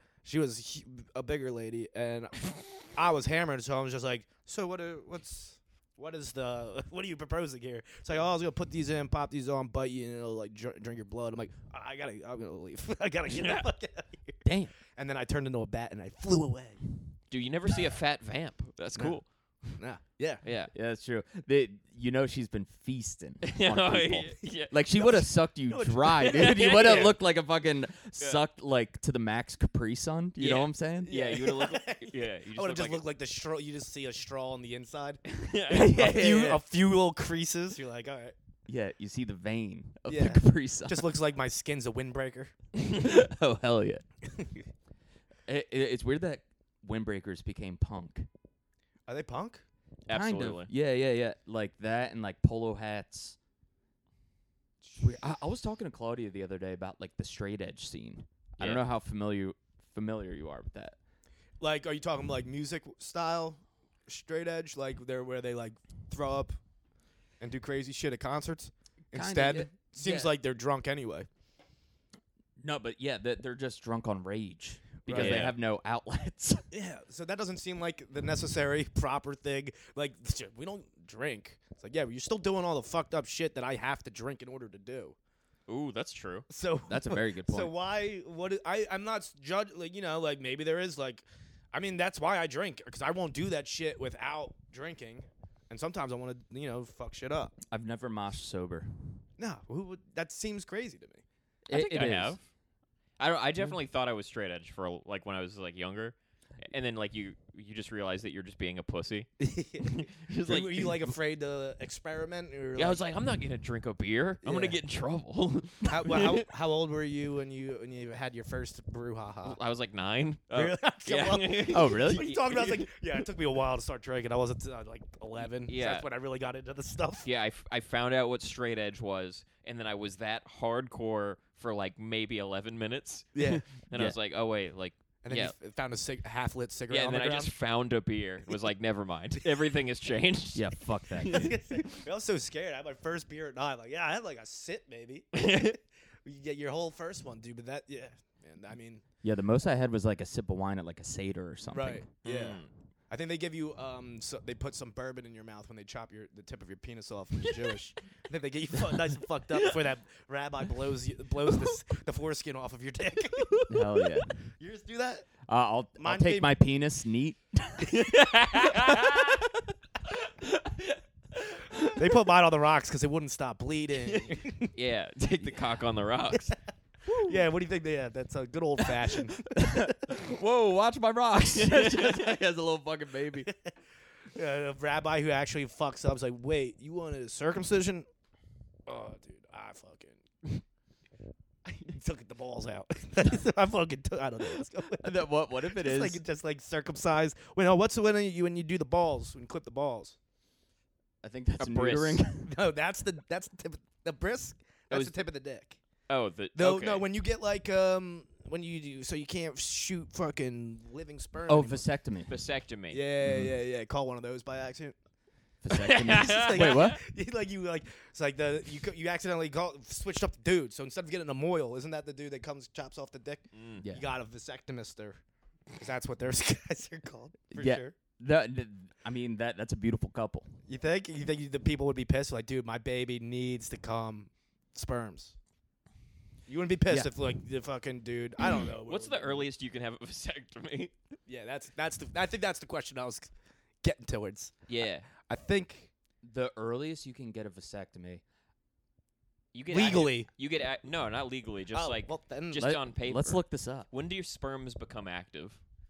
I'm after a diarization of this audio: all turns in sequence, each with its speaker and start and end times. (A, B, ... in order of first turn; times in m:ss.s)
0:00.2-0:16.9 A
0:13.3-0:13.7 B
0:14.4-0:14.8 C
0:17.3-0:19.3 B
0:19.8-0:20.4 A
0:20.4-0:20.7 B
0:20.7-0:31.1 C
0:23.4-0:24.7 B
0:25.7-0:26.8 A
0:26.2-0:27.2 B
0:30.4-0:33.0 B
0:31.0-0:38.3 A
0:35.3-0:36.2 B
0:35.7-0:36.6 C
0:38.7-0:41.0 C
0:40.1-0:42.5 A
0:42.8-0:44.0 C
0:45.5-0:48.3 C
0:49.1-0:49.6 A
0:50.1-0:50.7 B
0:50.1-0:53.4 C
0:55.0-1:01.0 C
0:58.6-0:58.8 B
1:01.6-1:06.6 A
1:07.4-1:11.3 A
1:09.1-1:10.4 C
1:12.6-1:16.6 C
1:15.1-1:15.6 A
1:15.1-1:15.6 B
1:16.7-1:25.1 A
1:25.7-1:26.5 B
1:26.5-1:37.6 A
1:26.9-1:27.7 C
1:37.7-1:39.2 C
1:39.4-1:41.2 A
1:41.7-1:42.4 C
1:41.7-1:42.4 B
1:43.2-1:49.3 B
1:49.4-1:53.0 A
1:49.8-1:51.1 B
1:52.8-1:56.4 B
1:54.4-1:54.8 A
1:55.8-1:59.6 A
1:59.4-2:02.9 B
2:00.5-2:07.3 A
2:01.7-2:02.3 C
2:05.7-2:06.1 B
2:07.2-2:15.5 B
2:13.4-2:13.6 A
2:15.2-2:17.5 A
2:16.9-2:22.0 B
2:20.5-2:21.5 C
2:21.3-2:29.0 A
2:25.4-2:25.7 B
2:29.2-2:32.0 C
2:31.7-2:43.7 A
2:32.2-2:32.7 B
2:37.4-2:37.8 B
2:43.4-2:44.0 B
2:43.7-2:44.3 C
2:44.6-2:45.3 A
2:45.5-2:48.0 C
2:46.0-2:46.6 A
2:47.8-2:49.5 B
2:50.1-2:51.0 B
2:51.5-2:52.0 B
2:51.8-2:54.7 A
2:54.1-2:56.6 B
2:57.1-2:57.4 B
2:57.2-2:59.5 A
2:59.5-3:03.5 C
3:01.6-3:02.0 B
3:04.3-3:08.1 A
3:08.9-3:10.6 A
3:11.8-3:20.2 A
3:14.9-3:16.2 C
3:21.2-3:22.5 C
3:21.6-3:22.2 B
3:22.4-3:25.8 A
3:24.9-3:25.2 B
3:26.1-3:27.1 B
3:26.6-3:31.8 A
3:31.5-3:32.3 C
3:32.3-3:33.0 B
3:32.9-3:35.0 A
3:33.2-3:33.5 C
3:35.6-3:37.0 C
3:35.7-3:37.0 B
3:35.9-3:45.2 A
3:43.5-3:43.8 B
3:45.8-3:48.0 A
3:47.5-3:50.5 C
3:50.7-3:55.4 A
3:56.5-3:59.5 A
3:58.9-4:00.9 B
4:01.3-4:03.3 A
4:03.8-4:05.9 A
4:04.7-4:05.1 B
4:06.2-4:08.2 C
4:09.5-4:15.6 B
4:09.7-4:10.3 A
4:11.7-4:12.8 A
4:12.6-4:13.9 C